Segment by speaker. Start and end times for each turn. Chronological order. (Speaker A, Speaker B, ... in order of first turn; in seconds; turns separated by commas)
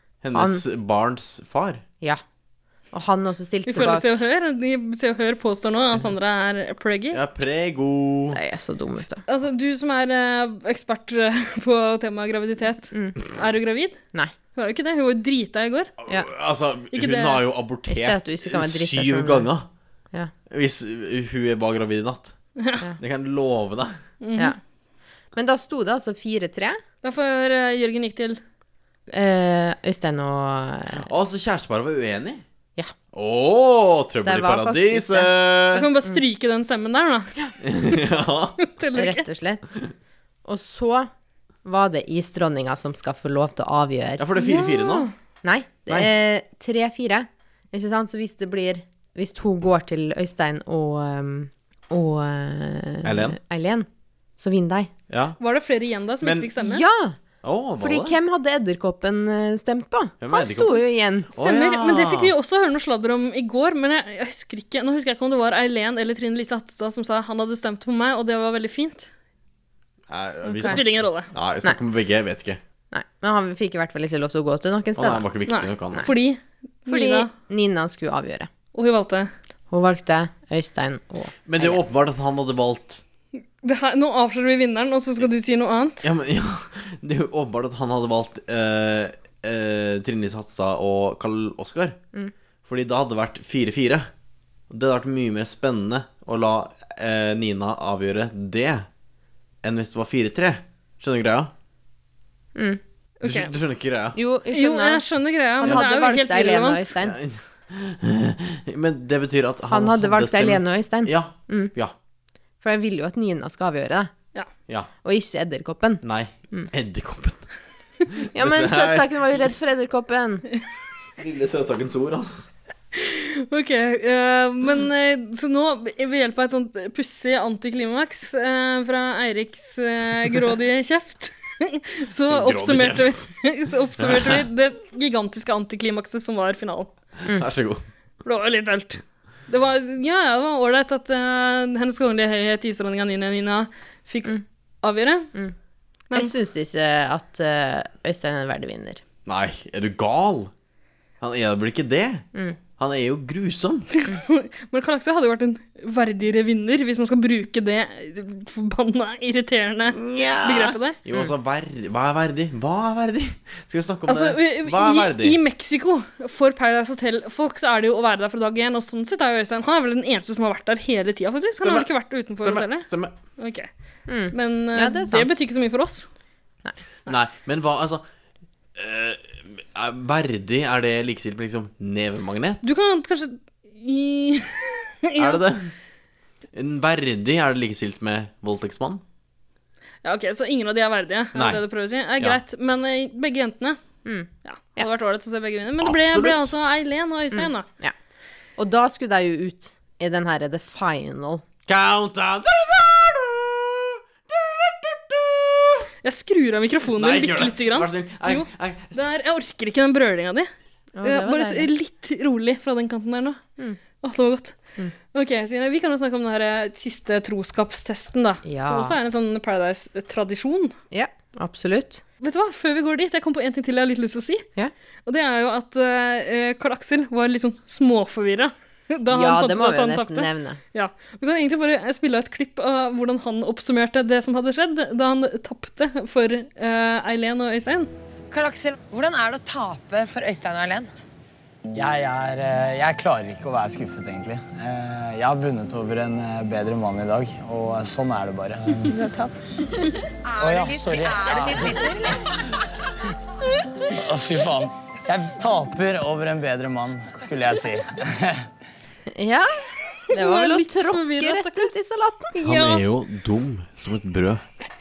Speaker A: 0.2-1.8, Speaker B: 0.3-0.6, Speaker B: 2.9-4.1, Speaker C: 3.7-7.2, Speaker A: 7.1-8.4, Speaker B: 8.3-9.2, Speaker C: 9.3-14.0, Speaker B: 12.9-13.2, Speaker C: 14.5-15.9, Speaker A: 16.0-19.7, Speaker C: 16.9-17.4, Speaker B: 17.9-19.5, Speaker A: 20.5-22.4, Speaker A: 23.0-24.0, Speaker C: 24.2-24.5, Speaker B: 25.3-26.8, Speaker C: 27.0-28.4, Speaker B: 29.1-31.1, Speaker A: 31.0-32.4, Speaker A: 33.1-35.9, Speaker B: 34.2-35.3, Speaker C: 35.7-37.3, Speaker A: 37.6-38.6, Speaker C: 38.6-39.2, Speaker B: 38.9-39.6, Speaker B: 40.4-41.1, Speaker B: 41.6-44.2, Speaker A: 44.2-45.1, Speaker C: 44.4-45.1, Speaker B: 45.4-53.9, Speaker A: 53.0-53.4, Speaker B: 54.4-54.9, Speaker A: 55.1-55.4, Speaker C: 55.4-56.8, Speaker A: 56.2-56.5, Speaker B: 56.6-57.2, Speaker A: 57.4-58.1, Speaker B: 57.8-61.3, Speaker A: 60.2-60.8, Speaker C: 61.3-69.1, Speaker A: 61.4-62.3, Speaker A: 70.1-72.6, Speaker C: 70.4-71.3, Speaker B: 72.9-75.2, Speaker A: 75.0-76.0, Speaker C: 75.5-77.3, Speaker B: 76.9-78.5, Speaker C: 78.7-79.3, Speaker B: 79.7-81.8, Speaker A: 81.5-83.0, Speaker C: 83.6-86.0, Speaker A: 86.0-92.0, Speaker A: 92.7-94.1, Speaker A: 94.7-98.8, Speaker A: 99.6-101.5, Speaker C: 103.2-103.5, Speaker A: 103.2-104.2, Speaker B: 104.1-105.0, Speaker C: 104.5-106.9, Speaker B: 105.6-107.2, Speaker A: 107.0-111.9, Speaker B: 109.7-111.7, Speaker B: 112.6-114.1, Speaker B: 115.0-116.7, Speaker A: 116.0-117.5, Speaker A: 118.1-119.2, Speaker B: 118.3-120.4, Speaker A: 121.2-122.5, Speaker C: 122.9-136.9, Speaker A: 132.3-133.3, Speaker A: 134.0-134.4, Speaker A: 137.2-137.8, Speaker C: 138.2-145.3, Speaker B: 146.1-149.0, Speaker A: 149.2-150.5, Speaker A: 151.2-152.2, Speaker A: 152.8-153.9, Speaker C: 154.0-160.9, Speaker A: 159.9-165.4, Speaker C: 164.1-173.7, Speaker A: 171.6-173.1, Speaker B: 174.1-175.3, Speaker C: 174.3-176.1, Speaker A: 177.1-178.0, Speaker A: 178.8-182.7, Speaker C: 182.6-185.4, Speaker A: 185.2-185.7, Speaker A: 186.5-189.0, Speaker C: 190.0-193.8, Speaker A: 191.3-191.6, Speaker B: 194.0-194.9, Speaker C: 194.4-197.7, Speaker A: 195.8-196.5, Speaker B: 197.3-197.9, Speaker B: 198.6-201.4, Speaker A: 201.7-205.9, Speaker C: 206.0-210.5, Speaker A: 206.9-209.0, Speaker B: 210.9-211.7, Speaker C: 211.0-213.4, Speaker C: 214.0-214.6, Speaker C: 215.1-220.7, Speaker B: 218.4-218.9, Speaker B: 220.9-222.0, Speaker C: 222.2-224.4, Speaker C: 225.1-237.9, Speaker B: 229.1-230.6, Speaker D: 238.3-240.9, Speaker E: 241.7-248.9, Speaker E: 250.4-251.7, Speaker D: 250.4-251.9, Speaker E: 254.0-257.9, Speaker B: 259.1-262.3, Speaker C: 260.1-261.7, Speaker C: 262.3-262.8, Speaker A: 262.4-264.4